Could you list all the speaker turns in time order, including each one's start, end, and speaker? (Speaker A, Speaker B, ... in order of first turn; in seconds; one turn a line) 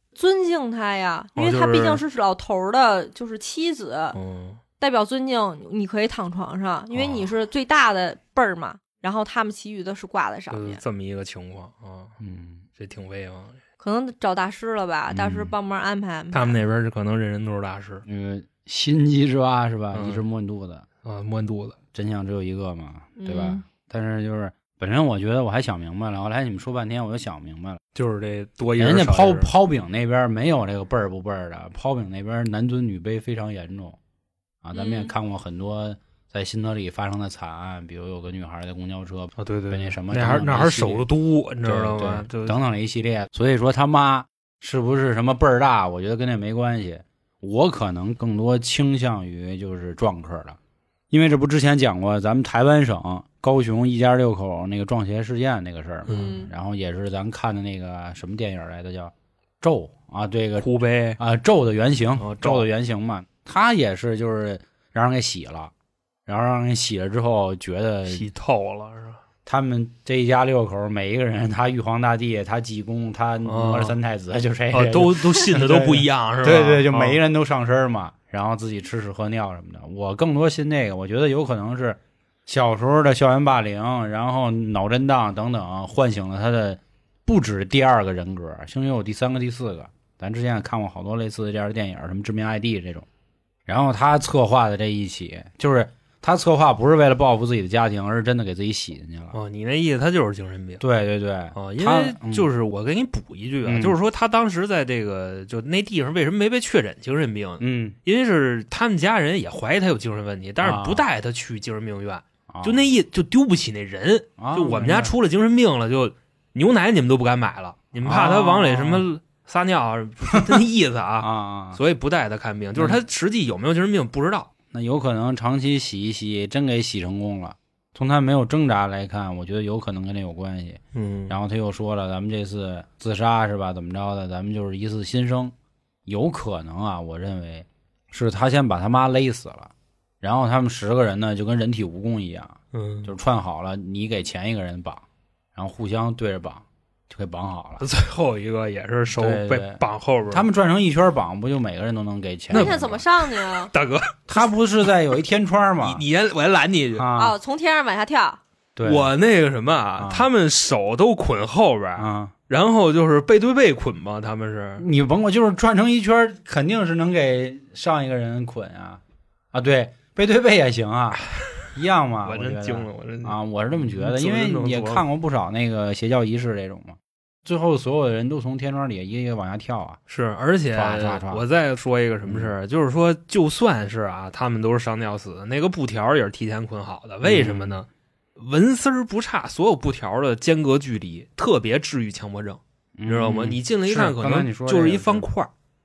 Speaker A: 0.1-4.2
Speaker B: 1.4-2.0
Speaker B: 4.1-4.6
Speaker A: 4.8-10.8
Speaker B: 6.9-7.3
Speaker B: 10.5-12.1
Speaker C: 12.2-12.6
Speaker B: 12.8-13.6
Speaker A: 13.8-16.6
Speaker C: 15.1-15.5
Speaker B: 16.3-18.0
Speaker C: 18.0-20.9
Speaker B: 19.9-20.2
Speaker B: 21.0-21.8
Speaker C: 21.9-27.8
Speaker A: 23.2-23.6
Speaker B: 27.9-29.5
Speaker C: 28.8-34.0
Speaker C: 34.6-41.1
Speaker A: 34.7-35.1
Speaker B: 39.4-42.6
Speaker C: 41.6-50.6
Speaker C: 51.1-60.7
Speaker B: 56.1-56.5
Speaker A: 56.1-56.5
Speaker B: 60.6-61.2
Speaker C: 61.2-65.7
Speaker B: 62.2-62.7
Speaker C: 66.2-68.3
Speaker B: 68.1-69.2
Speaker C: 69.4-93.1
Speaker B: 73.4-74.0
Speaker B: 74.7-77.2
Speaker C: 93.7-99.4
Speaker B: 99.3-100.8
Speaker C: 100.8-102.5
Speaker B: 101.5-124.5
Speaker C: 103.6-104.0
Speaker C: 107.6-108.0
Speaker C: 110.6-111.1
Speaker C: 112.5-112.9
Speaker C: 114.4-115.1
Speaker C: 118.0-119.1
Speaker C: 120.3-120.6
Speaker C: 121.2-121.8
Speaker C: 124.7-135.5
Speaker B: 130.9-131.4
Speaker C: 136.1-147.8
Speaker B: 142.7-143.1
Speaker B: 147.8-150.5
Speaker C: 149.1-153.0
Speaker A: 152.5-153.7
Speaker B: 152.5-154.5
Speaker C: 154.3-156.0
Speaker B: 155.8-157.0
Speaker C: 157.0-157.3
Speaker A: 157.2-158.4
Speaker C: 158.8-159.1
Speaker B: 158.8-164.8
Speaker C: 160.0-160.3
Speaker C: 161.9-162.3
Speaker C: 164.8-180.0
Speaker B: 172.2-175.1
Speaker B: 180.1-195.5
Speaker C: 180.7-181.4
Speaker C: 182.2-182.5
Speaker C: 187.2-187.8
Speaker C: 193.0-195.3